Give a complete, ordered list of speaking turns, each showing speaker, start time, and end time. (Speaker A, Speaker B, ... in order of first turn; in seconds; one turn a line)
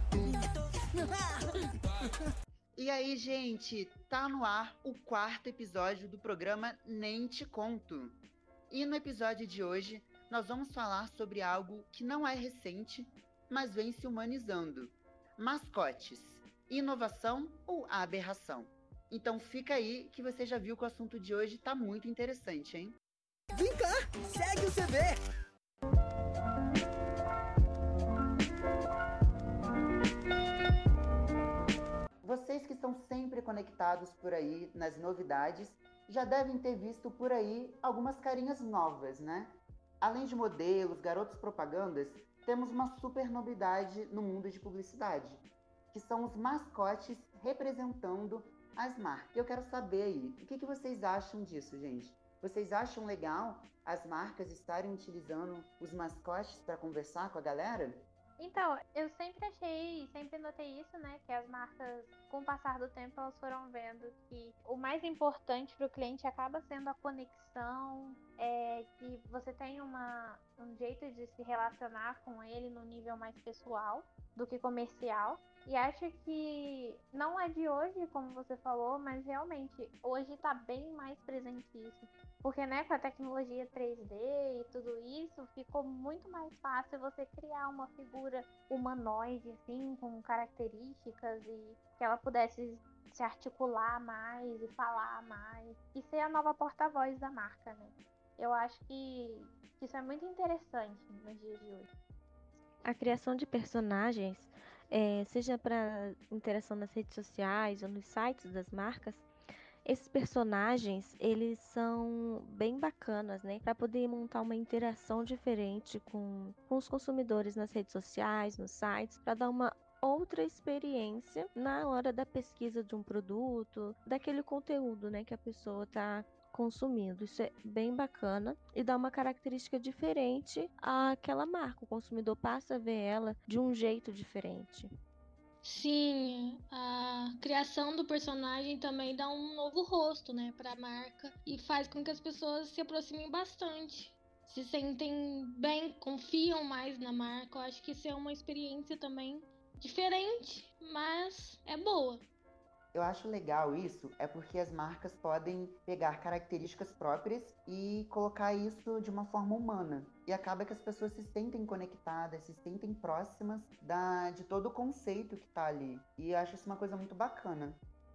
Speaker A: 0.2-1.7
Speaker B: 2.8-8.2
Speaker B: 8.7-23.0
Speaker A: 23.6-25.2
Speaker B: 32.2-58.0
Speaker C: 58.4-101.9
Speaker D: 102.8-109.3
Speaker D: 109.8-134.9
Speaker E: 135.6-152.2
Speaker B: 152.9-167.8